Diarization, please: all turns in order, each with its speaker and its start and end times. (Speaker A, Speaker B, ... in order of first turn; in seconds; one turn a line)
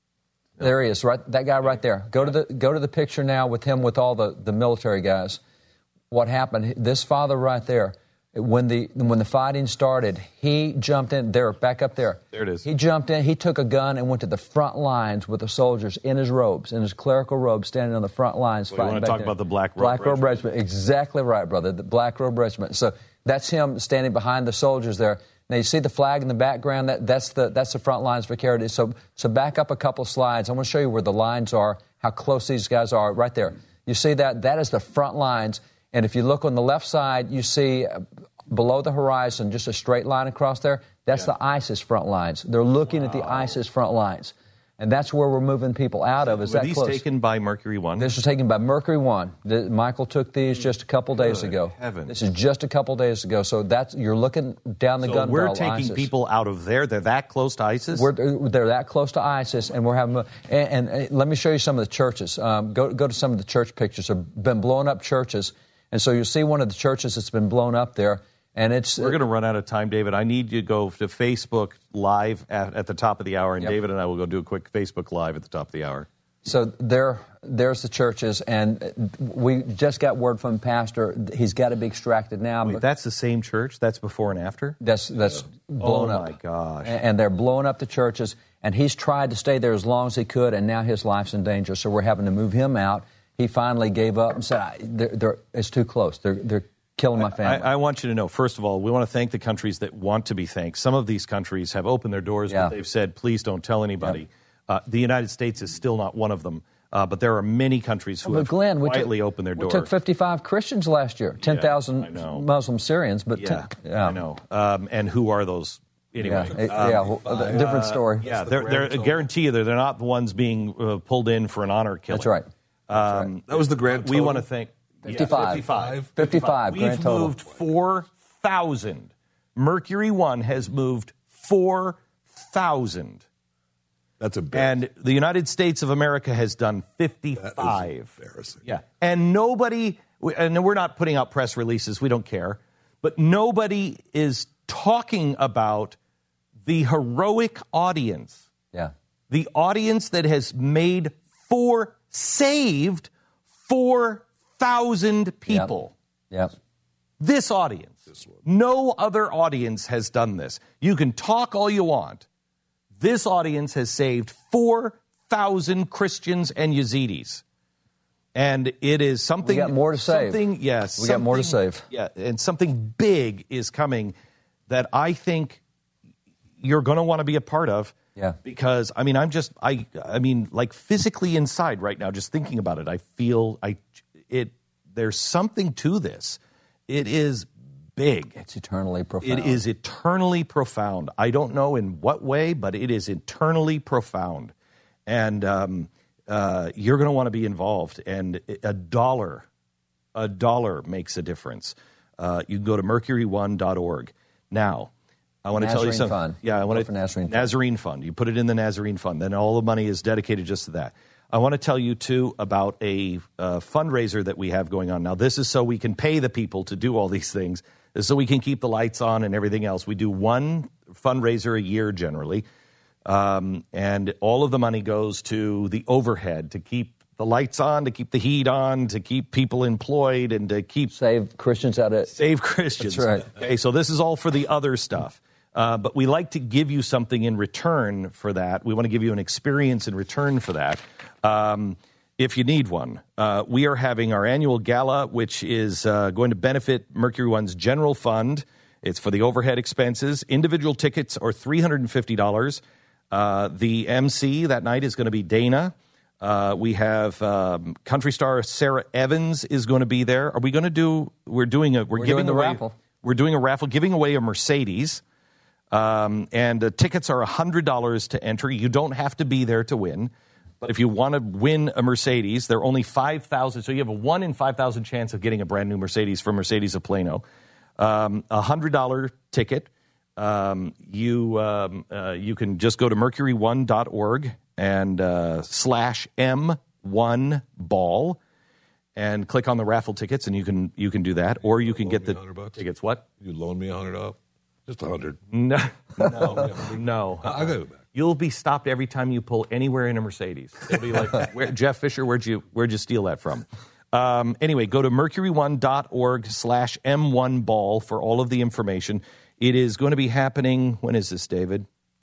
Speaker A: 0.6-5.4
Speaker A: 6.1-47.0
Speaker B: 12.3-12.7
Speaker B: 18.7-20.4
Speaker B: 43.1-43.5
Speaker B: 46.2-48.1
Speaker A: 48.0-56.1
Speaker B: 51.1-52.1
Speaker B: 55.0-58.1
Speaker A: 57.9-69.2
Speaker B: 69.0-76.1
Speaker A: 76.4-82.8
Speaker B: 82.7-84.8
Speaker A: 84.8-86.3
Speaker B: 85.8-87.0
Speaker A: 86.8-97.7
Speaker B: 97.2-109.9
Speaker A: 102.5-102.8
Speaker A: 108.2-114.2
Speaker B: 111.4-112.5
Speaker B: 113.3-122.3
Speaker A: 116.2-118.2
Speaker C: 116.5-119.3
Speaker A: 122.1-122.5
Speaker B: 122.9-133.2
Speaker C: 123.5-124.5
Speaker A: 125.0-127.4
Speaker C: 125.1-126.4
Speaker C: 134.2-134.8
Speaker B: 134.5-138.1
Speaker C: 137.4-138.6
Speaker B: 138.7-146.0
Speaker B: 146.7-148.5
Speaker B: 149.3-153.1
Speaker B: 153.7-155.9
Speaker B: 157.2-162.2
Speaker C: 158.1-158.4
Speaker B: 163.0-167.4
Speaker B: 168.3-174.2
Speaker A: 169.4-171.9
Speaker B: 174.7-175.6
Speaker B: 176.6-188.4
Speaker A: 188.4-189.7
Speaker B: 189.2-194.5
Speaker B: 195.1-199.5
Speaker B: 200.2-204.9
Speaker B: 205.4-222.4
Speaker A: 205.6-207.5
Speaker B: 223.1-230.9
Speaker A: 230.9-232.1
Speaker B: 232.1-265.0
Speaker A: 232.8-233.3
Speaker A: 261.9-262.8
Speaker B: 265.7-277.2
Speaker B: 277.8-288.2
Speaker B: 289.0-293.1
Speaker C: 291.7-292.6
Speaker C: 293.2-295.2
Speaker B: 295.3-311.7
Speaker C: 296.0-296.7
Speaker C: 297.2-297.8